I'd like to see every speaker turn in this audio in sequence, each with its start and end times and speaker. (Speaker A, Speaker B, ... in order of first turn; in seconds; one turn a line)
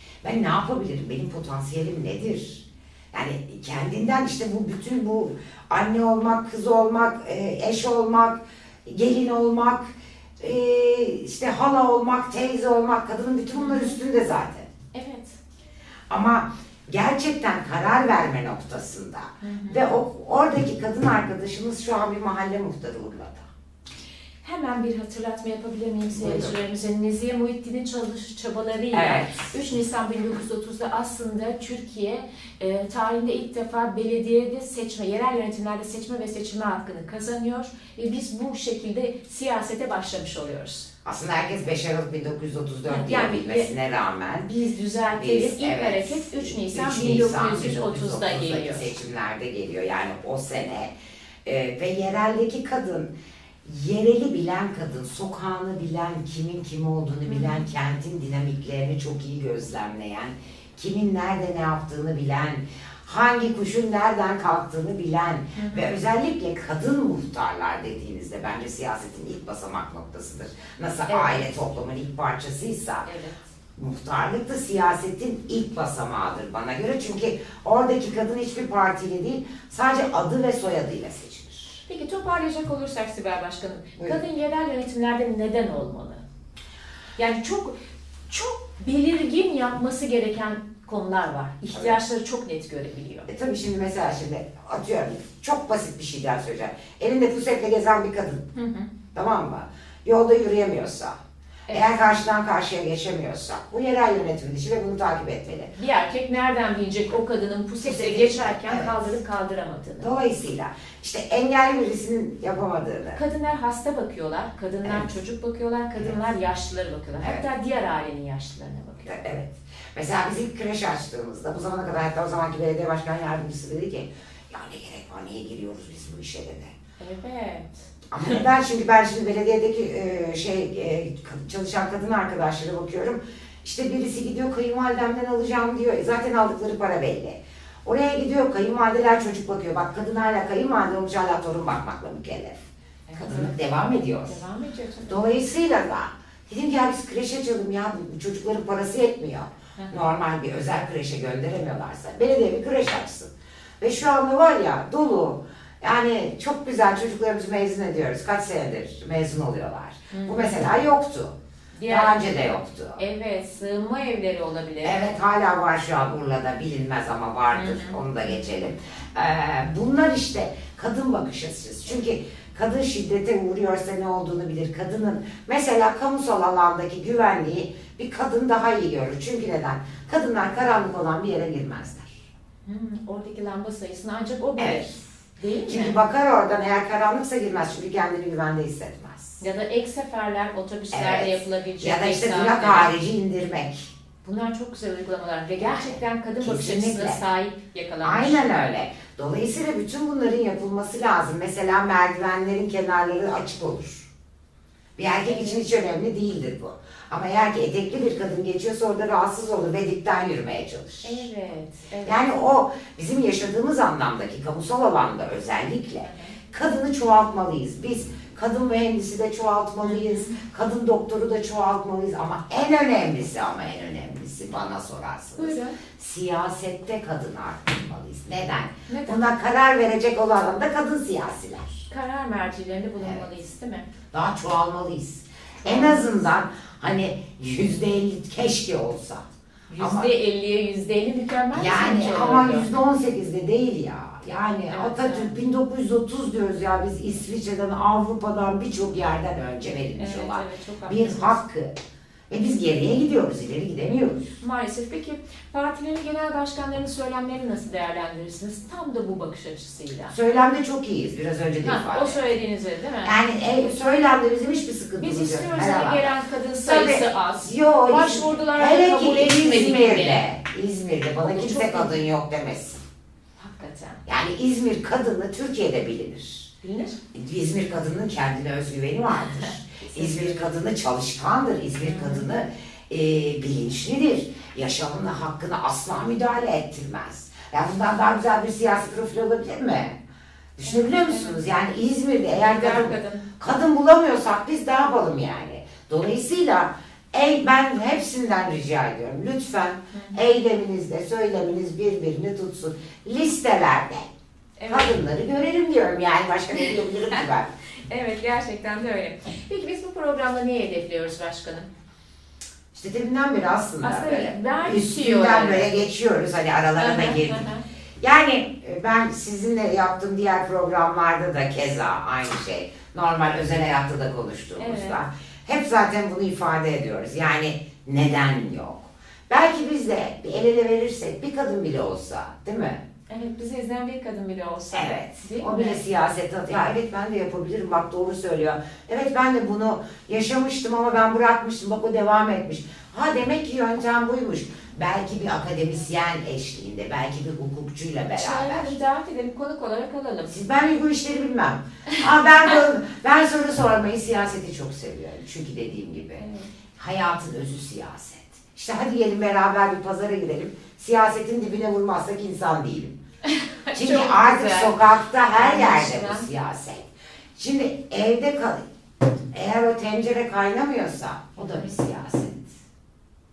Speaker A: 0.2-14.7
Speaker B: 13.6-14.0
Speaker B: 14.9-15.4
Speaker A: 16.1-23.5
Speaker B: 19.4-19.9
Speaker B: 24.4-40.9
Speaker A: 26.1-26.6
Speaker A: 28.9-29.5
Speaker A: 41.0-44.5
Speaker B: 42.9-43.7
Speaker B: 44.4-48.9
Speaker A: 45.1-50.9
Speaker A: 51.4-53.1
Speaker A: 53.6-73.1
Speaker B: 57.3-57.6
Speaker B: 65.5-65.9
Speaker B: 71.1-71.4
Speaker B: 73.0-73.5
Speaker A: 73.7-81.8
Speaker B: 81.8-86.2
Speaker B: 87.2-87.8
Speaker B: 88.3-93.3
Speaker A: 93.3-98.5
Speaker B: 98.5-98.9
Speaker A: 99.1-101.1
Speaker A: 101.7-105.7
Speaker B: 105.7-110.1
Speaker A: 107.8-109.2
Speaker A: 110.0-113.2
Speaker B: 113.1-119.2
Speaker A: 117.2-117.4
Speaker A: 119.0-126.7
Speaker B: 127.0-127.7
Speaker A: 128.1-144.4
Speaker B: 143.1-143.5
Speaker B: 144.2-145.2
Speaker A: 145.1-161.3
Speaker B: 160.1-160.6
Speaker B: 161.7-162.2
Speaker A: 161.9-163.0
Speaker B: 163.0-165.1
Speaker A: 164.8-182.2
Speaker B: 167.5-168.4
Speaker B: 182.6-186.0
Speaker A: 184.6-185.0
Speaker A: 185.7-189.4
Speaker B: 189.4-192.9
Speaker A: 190.9-193.9
Speaker B: 194.2-198.6
Speaker A: 195.6-197.2
Speaker A: 198.0-204.1
Speaker A: 205.0-211.2
Speaker B: 205.3-205.6
Speaker B: 211.0-212.2
Speaker A: 212.0-231.9
Speaker B: 216.0-216.3
Speaker B: 219.8-220.3
Speaker B: 225.4-225.8
Speaker B: 228.9-229.2
Speaker B: 231.9-233.9
Speaker A: 234.1-239.2
Speaker B: 235.6-236.1
Speaker B: 239.7-242.7
Speaker A: 239.8-240.1
Speaker A: 241.5-251.7
Speaker B: 244.7-245.3
Speaker B: 250.0-251.4
Speaker A: 252.3-254.3
Speaker B: 254.4-260.1
Speaker A: 260.1-262.3
Speaker B: 261.6-263.2
Speaker A: 263.0-272.8
Speaker B: 265.0-270.2
Speaker B: 271.2-272.0
Speaker B: 273.4-274.0
Speaker A: 274.0-276.5
Speaker B: 276.6-277.0
Speaker A: 277.1-290.0
Speaker B: 279.3-280.6
Speaker B: 281.8-282.3
Speaker A: 290.6-304.1
Speaker B: 290.6-291.4
Speaker B: 292.3-293.3
Speaker B: 299.9-300.2
Speaker B: 304.6-304.9
Speaker A: 304.7-307.5
Speaker B: 306.5-307.2
Speaker B: 307.9-311.7
Speaker A: 312.7-317.5
Speaker B: 313.8-315.7
Speaker B: 316.8-317.6
Speaker A: 318.0-332.8
Speaker B: 324.6-325.0
Speaker B: 333.1-335.8
Speaker A: 334.7-348.8
Speaker B: 348.1-350.3
Speaker A: 350.3-356.2
Speaker B: 356.2-356.5
Speaker A: 356.8-363.0
Speaker B: 363.2-364.8
Speaker A: 363.7-368.6
Speaker B: 365.3-366.3
Speaker A: 369.3-372.5
Speaker B: 371.4-371.7